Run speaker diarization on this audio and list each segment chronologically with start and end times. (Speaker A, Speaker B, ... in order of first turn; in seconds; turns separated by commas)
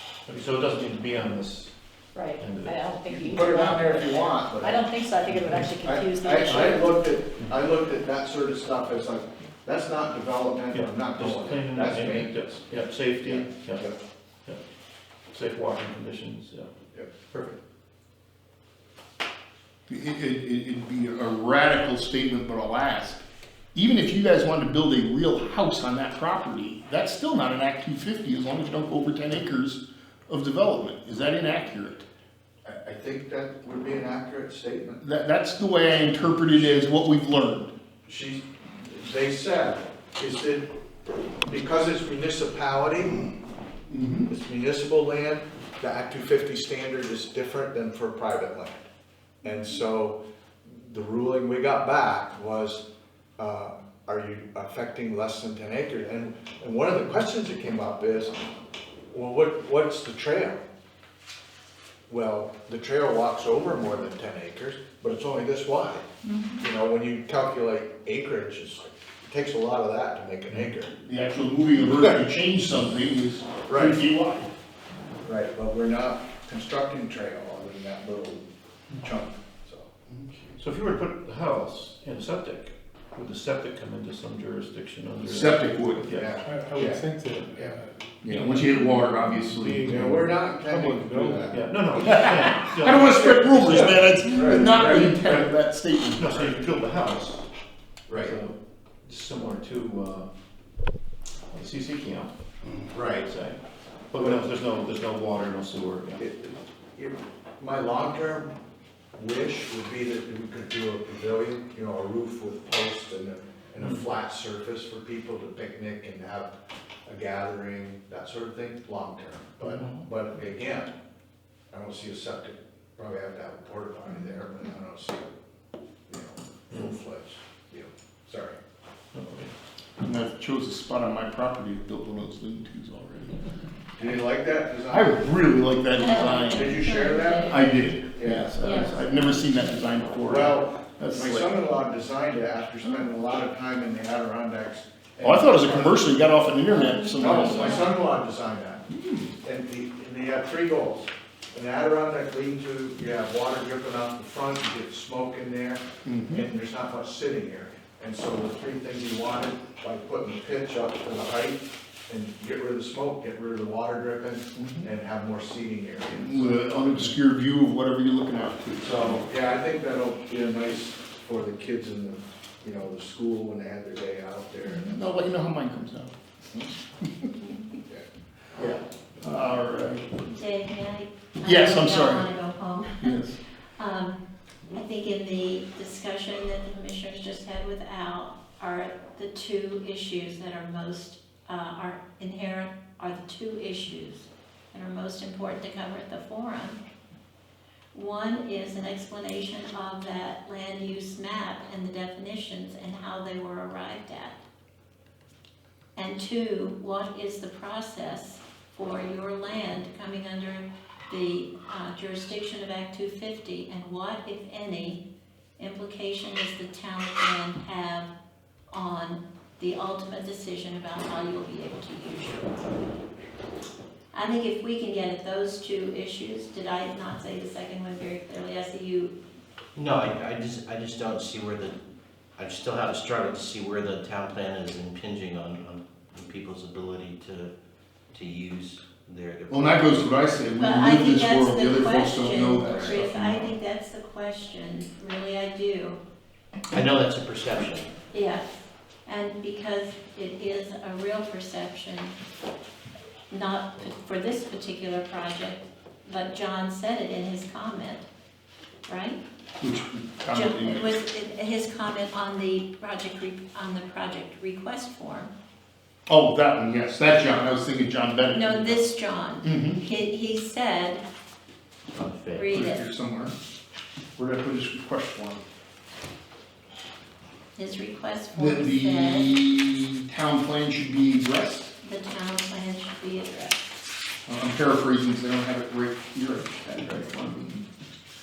Speaker A: 0.3-1.7, Speaker B: 2.1-7.0, Speaker A: 2.4-2.8, Speaker C: 3.1-14.0, Speaker A: 5.3-5.7, Speaker A: 6.5-6.8, Speaker A: 10.7-13.9, Speaker A: 15.3-16.7, Speaker A: 17.3-17.6, Speaker D: 19.9-23.2, Speaker D: 23.8-32.1, Speaker C: 32.6-35.0, Speaker D: 35.0-37.7, Speaker C: 38.1-40.7, Speaker C: 41.5-43.3, Speaker D: 43.9-44.3, Speaker C: 44.3-48.9, Speaker C: 49.4-52.8, Speaker C: 53.4-58.5, Speaker C: 59.1-60.6, Speaker C: 62.1-66.1, Speaker E: 66.3-66.6, Speaker C: 66.6-70.9, Speaker D: 70.6-74.5, Speaker C: 71.8-72.2, Speaker C: 73.7-74.0, Speaker C: 75.2-80.0, Speaker A: 80.6-86.4, Speaker D: 85.2-86.1, Speaker C: 86.1-87.8, Speaker F: 86.4-87.9, Speaker D: 88.2-90.1, Speaker A: 88.3-88.7, Speaker F: 88.7-91.6, Speaker C: 89.9-91.7, Speaker A: 91.5-95.1, Speaker D: 92.0-96.4, Speaker C: 92.5-95.5, Speaker A: 96.2-97.5, Speaker C: 98.1-98.4, Speaker A: 98.1-98.5, Speaker A: 99.0-100.3, Speaker A: 101.5-102.3, Speaker C: 102.9-103.3, Speaker A: 103.0-103.6, Speaker A: 104.1-106.2, Speaker C: 104.1-104.5, Speaker C: 106.2-108.5, Speaker C: 109.2-116.5, Speaker C: 117.1-120.9, Speaker C: 121.7-125.3, Speaker C: 126.1-128.6, Speaker A: 126.7-127.0, Speaker A: 129.1-129.5, Speaker D: 130.0-133.4, Speaker C: 134.0-135.2, Speaker D: 134.9-136.9, Speaker E: 136.0-137.8, Speaker C: 136.2-138.9, Speaker D: 137.5-141.6, Speaker E: 138.6-139.0, Speaker C: 140.3-146.0, Speaker D: 145.2-147.9, Speaker B: 146.8-147.6, Speaker E: 147.0-147.7, Speaker C: 147.2-148.8, Speaker D: 148.9-149.3, Speaker C: 149.4-167.1, Speaker D: 156.1-156.5, Speaker D: 164.6-164.9, Speaker D: 166.1-169.2, Speaker C: 168.9-175.0, Speaker D: 174.7-176.1, Speaker D: 177.0-177.5, Speaker C: 177.8-178.0, Speaker D: 179.2-180.1, Speaker E: 180.3-183.2, Speaker D: 181.4-182.3, Speaker D: 183.0-183.4, Speaker E: 183.8-196.8, Speaker E: 197.9-204.4, Speaker E: 206.0-215.0, Speaker E: 215.6-218.1, Speaker E: 218.7-222.5, Speaker E: 224.1-229.2, Speaker G: 229.8-231.8, Speaker G: 232.4-237.5, Speaker G: 238.1-240.2, Speaker D: 239.5-243.6, Speaker E: 240.6-246.0, Speaker G: 246.7-248.0, Speaker E: 248.1-252.2, Speaker E: 253.3-258.1, Speaker E: 258.9-259.2, Speaker D: 259.6-260.9, Speaker E: 260.3-265.3, Speaker D: 266.1-268.8, Speaker E: 268.3-271.0, Speaker D: 269.4-269.8, Speaker G: 271.9-272.5, Speaker E: 272.3-272.9, Speaker D: 272.5-273.4, Speaker D: 274.2-275.4, Speaker E: 277.6-279.3, Speaker D: 278.3-281.7, Speaker E: 281.8-283.7, Speaker D: 284.3-287.6